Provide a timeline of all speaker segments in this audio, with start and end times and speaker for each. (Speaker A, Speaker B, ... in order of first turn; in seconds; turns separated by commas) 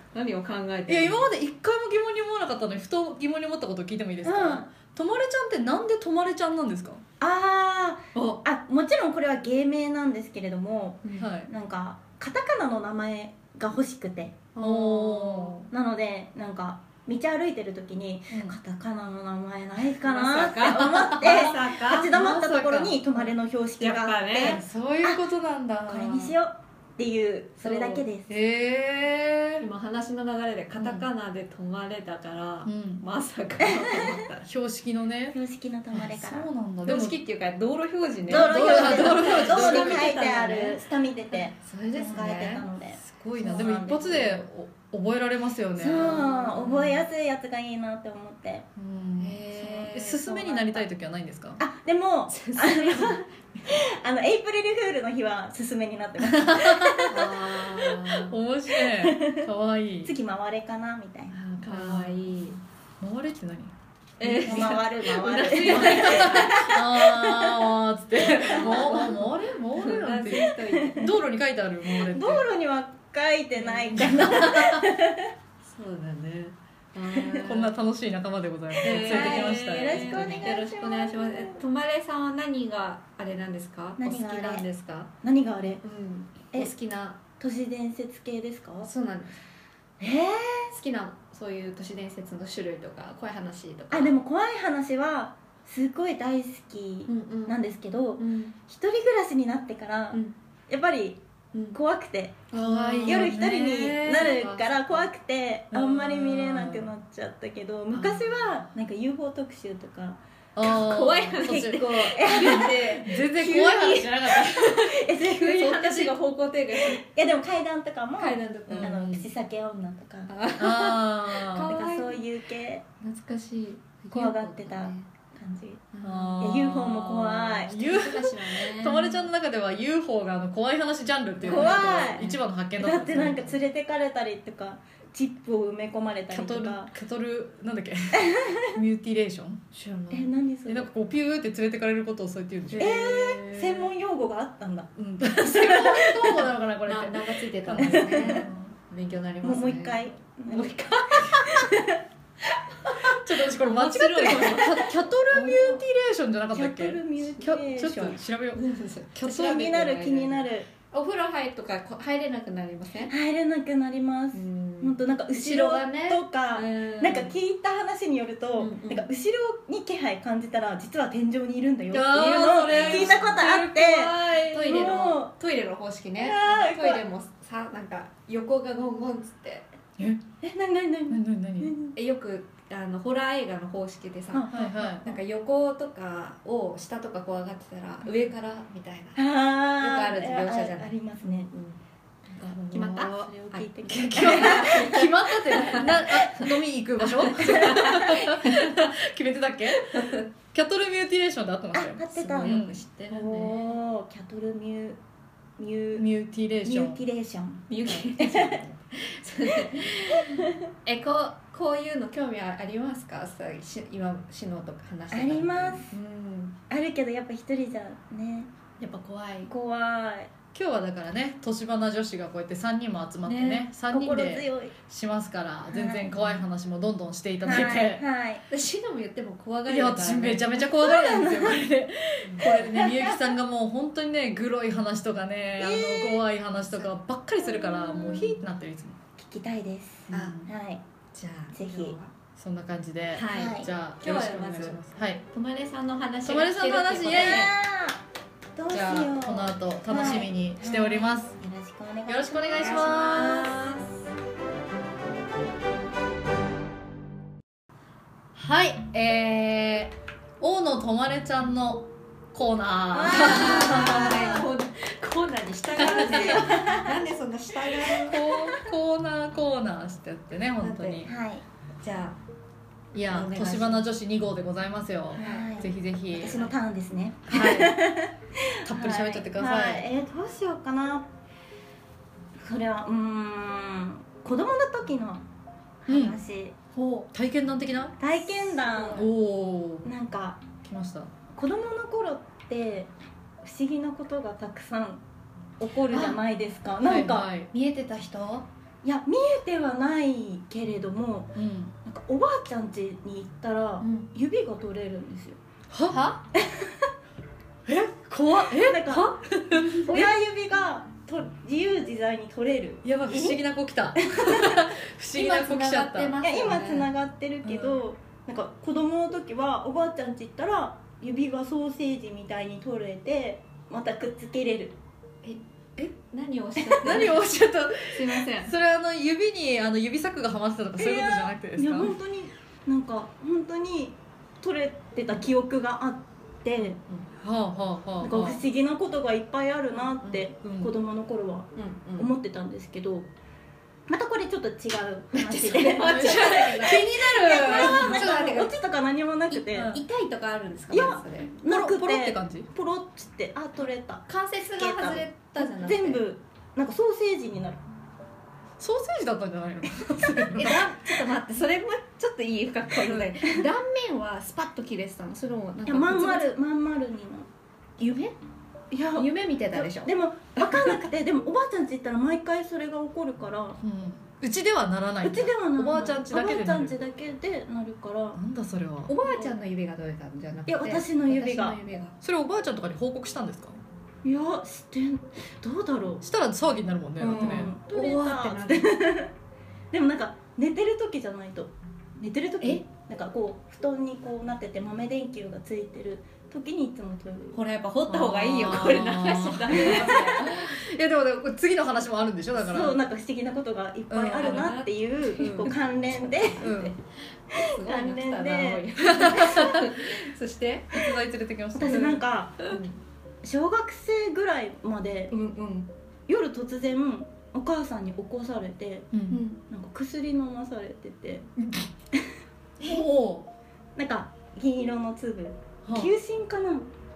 Speaker A: 0.1-1.3, Speaker B: 0.9-7.0, Speaker C: 4.2-4.7, Speaker C: 7.2-14.4, Speaker A: 8.1-8.4, Speaker B: 11.2-11.5, Speaker A: 14.5-15.7, Speaker B: 14.6-15.7, Speaker C: 15.7-25.2, Speaker B: 18.3-18.6, Speaker A: 20.0-22.1, Speaker B: 20.8-21.5, Speaker B: 22.1-23.1, Speaker A: 23.8-24.6, Speaker B: 24.4-26.3, Speaker C: 25.8-28.3, Speaker B: 27.6-29.7, Speaker A: 29.6-34.5, Speaker B: 30.8-31.1, Speaker B: 32.6-33.0, Speaker C: 33.6-34.1, Speaker B: 34.5-35.4, Speaker C: 35.3-36.5, Speaker B: 35.9-37.2, Speaker A: 36.8-40.8, Speaker B: 38.3-40.2, Speaker C: 38.3-44.4, Speaker A: 41.6-42.6, Speaker B: 43.0-47.0, Speaker C: 45.8-48.7, Speaker A: 46.2-46.6, Speaker B: 48.8-51.6, Speaker A: 49.2-50.8, Speaker C: 51.6-57.3, Speaker A: 52.3-53.2, Speaker B: 56.2-57.3, Speaker A: 57.1-58.3, Speaker B: 58.2-60.1, Speaker C: 58.7-59.5, Speaker C: 60.0-61.4, Speaker B: 61.3-62.4, Speaker A: 61.6-62.6, Speaker B: 63.0-64.8, Speaker A: 64.2-66.6, Speaker C: 64.3-67.7, Speaker B: 65.6-72.5, Speaker A: 68.2-71.0, Speaker C: 68.3-69.1, Speaker C: 70.3-71.1, Speaker C: 71.9-75.3, Speaker B: 73.9-74.9, Speaker A: 75.6-77.8, Speaker B: 77.4-80.5, Speaker A: 78.8-85.1, Speaker C: 78.8-81.6, Speaker C: 84.0-84.6, Speaker C: 85.2-85.8, Speaker A: 85.8-87.2, Speaker C: 87.4-88.9, Speaker A: 88.8-89.4, Speaker C: 90.0-90.7, Speaker A: 90.7-94.1, Speaker C: 93.9-101.2, Speaker A: 97.1-97.6, Speaker A: 98.2-98.5, Speaker C: 101.7-102.5, Speaker A: 102.5-105.1, Speaker B: 102.5-104.3, Speaker C: 103.0-110.2, Speaker B: 105.7-106.9, Speaker B: 110.5-114.8, Speaker A: 110.6-117.0, Speaker C: 111.4-113.0, Speaker C: 114.7-116.2, Speaker C: 116.8-120.3, Speaker A: 118.2-119.0, Speaker B: 118.7-119.3, Speaker A: 120.3-122.2, Speaker B: 120.6-121.7, Speaker C: 121.6-122.8, Speaker A: 123.0-125.1, Speaker C: 124.1-125.9, Speaker A: 125.9-126.4, Speaker B: 126.0-133.6, Speaker C: 126.4-127.8, Speaker A: 127.7-129.3, Speaker A: 131.4-132.4, Speaker C: 131.4-136.9, Speaker B: 136.3-139.8, Speaker C: 138.1-138.7, Speaker A: 139.7-140.2, Speaker C: 140.1-140.9, Speaker B: 140.7-143.9, Speaker C: 142.8-146.4, Speaker B: 145.0-148.7, Speaker A: 146.9-151.5, Speaker C: 147.8-148.5, Speaker C: 149.4-152.0, Speaker B: 151.1-151.6, Speaker A: 152.8-154.9, Speaker B: 152.9-159.6, Speaker C: 155.4-155.8, Speaker C: 156.5-158.2, Speaker A: 158.6-163.1, Speaker C: 159.3-160.7, Speaker C: 163.1-175.3, Speaker A: 164.3-167.3, Speaker A: 168.6-169.1, Speaker B: 171.9-174.1, Speaker A: 172.1-179.7, Speaker C: 176.2-177.0, Speaker B: 180.0-180.2, Speaker C: 180.4-181.9, Speaker B: 181.1-181.7, Speaker A: 181.9-189.2, Speaker C: 184.3-184.7, Speaker B: 184.5-185.1, Speaker C: 189.1-191.5, Speaker A: 189.8-191.8, Speaker A: 192.4-196.4, Speaker C: 192.7-195.1, Speaker B: 193.9-202.8, Speaker A: 197.0-198.7, Speaker A: 199.9-200.2, Speaker C: 201.7-205.0, Speaker A: 202.1-203.7, Speaker C: 205.6-206.1, Speaker B: 205.9-207.0, Speaker C: 206.6-208.6, Speaker A: 207.7-216.6, Speaker C: 210.2-210.6, Speaker C: 215.1-215.9, Speaker C: 216.7-218.5, Speaker A: 218.8-219.5, Speaker C: 219.4-220.3, Speaker B: 220.6-228.0, Speaker A: 223.2-223.7, Speaker C: 223.9-224.8, Speaker C: 225.7-226.1, Speaker C: 227.4-228.4, Speaker A: 228.5-230.7, Speaker B: 229.7-239.0, Speaker C: 230.7-231.6, Speaker A: 232.4-233.2, Speaker C: 235.6-236.2, Speaker C: 237.6-238.3, Speaker C: 239.2-240.8, Speaker A: 240.1-240.4, Speaker B: 240.1-240.5, Speaker A: 241.1-242.1, Speaker C: 241.5-241.9, Speaker B: 242.4-245.2, Speaker A: 243.1-247.5, Speaker C: 243.3-243.7, Speaker B: 246.2-247.5, Speaker C: 247.1-248.0, Speaker C: 248.6-252.4, Speaker B: 248.7-251.4, Speaker B: 252.1-253.5, Speaker A: 252.1-254.1, Speaker B: 258.3-264.4, Speaker C: 262.9-264.1, Speaker A: 263.1-268.2, Speaker C: 265.7-266.9, Speaker B: 265.8-266.4, Speaker B: 268.0-271.1, Speaker A: 270.6-271.1, Speaker C: 271.0-271.4, Speaker A: 271.8-272.2, Speaker B: 272.9-276.5, Speaker A: 273.1-273.9, Speaker C: 275.1-281.1, Speaker A: 275.2-275.5, Speaker B: 277.3-277.8, Speaker A: 277.3-277.6, Speaker B: 278.6-279.9, Speaker C: 282.4-285.2, Speaker C: 285.8-286.6, Speaker B: 285.9-286.2, Speaker A: 286.7-287.1, Speaker B: 287.1-288.0, Speaker C: 288.0-289.0, Speaker B: 288.9-289.9, Speaker C: 289.8-290.4, Speaker B: 290.6-291.1, Speaker C: 291.4-292.9, Speaker C: 293.4-295.0, Speaker C: 295.6-297.3, Speaker A: 295.9-296.2, Speaker B: 296.8-297.5, Speaker A: 297.5-298.4, Speaker C: 298.8-305.4, Speaker B: 301.3-301.7, Speaker A: 303.8-304.1, Speaker B: 305.7-306.0, Speaker A: 305.9-306.2, Speaker C: 306.3-306.7, Speaker B: 307.6-309.9, Speaker C: 308.5-309.2, Speaker A: 309.7-310.1, Speaker C: 309.8-313.4, Speaker B: 312.8-316.1, Speaker C: 314.0-314.6, Speaker A: 315.1-316.9, Speaker C: 316.2-324.8, Speaker B: 317.4-317.8, Speaker A: 325.2-328.5, Speaker B: 326.8-331.9, Speaker C: 330.8-336.8, Speaker A: 336.6-337.1, Speaker B: 337.1-338.4, Speaker C: 338.0-343.1, Speaker B: 340.4-340.7, Speaker A: 341.6-342.1, Speaker C: 343.9-349.7, Speaker A: 345.1-348.5, Speaker B: 345.9-348.1, Speaker A: 349.3-351.3, Speaker B: 349.5-349.8, Speaker C: 350.7-357.6, Speaker B: 351.5-352.5, Speaker A: 354.1-356.1, Speaker B: 358.6-360.7, Speaker A: 360.3-366.3, Speaker C: 365.6-367.3, Speaker A: 367.8-368.1, Speaker C: 368.7-373.6, Speaker A: 368.9-370.7, Speaker B: 373.6-376.7, Speaker C: 375.0-378.2, Speaker B: 378.1-378.9, Speaker A: 378.9-381.9, Speaker C: 379.1-379.3, Speaker C: 380.5-381.6, Speaker B: 382.0-383.6, Speaker C: 384.0-386.0, Speaker B: 386.0-387.5, Speaker A: 387.0-388.9, Speaker C: 387.1-389.1, Speaker C: 389.7-397.4, Speaker A: 397.3-400.5, Speaker B: 397.9-402.8, Speaker C: 399.5-400.0, Speaker C: 402.4-406.8, Speaker B: 403.9-404.5, Speaker A: 404.2-406.3, Speaker B: 405.2-405.5, Speaker B: 406.4-406.8, Speaker C: 407.3-408.9, Speaker A: 407.3-410.8, Speaker B: 408.9-409.8, Speaker B: 410.7-412.0, Speaker C: 411.5-412.5, Speaker A: 411.7-412.8, Speaker C: 413.2-415.1, Speaker A: 415.1-415.7, Speaker C: 416.1-418.9, Speaker B: 418.9-419.2, Speaker A: 419.1-419.4, Speaker C: 419.5-421.2, Speaker B: 421.4-421.7, Speaker B: 422.6-423.3, Speaker C: 423.8-426.7, Speaker B: 425.6-425.9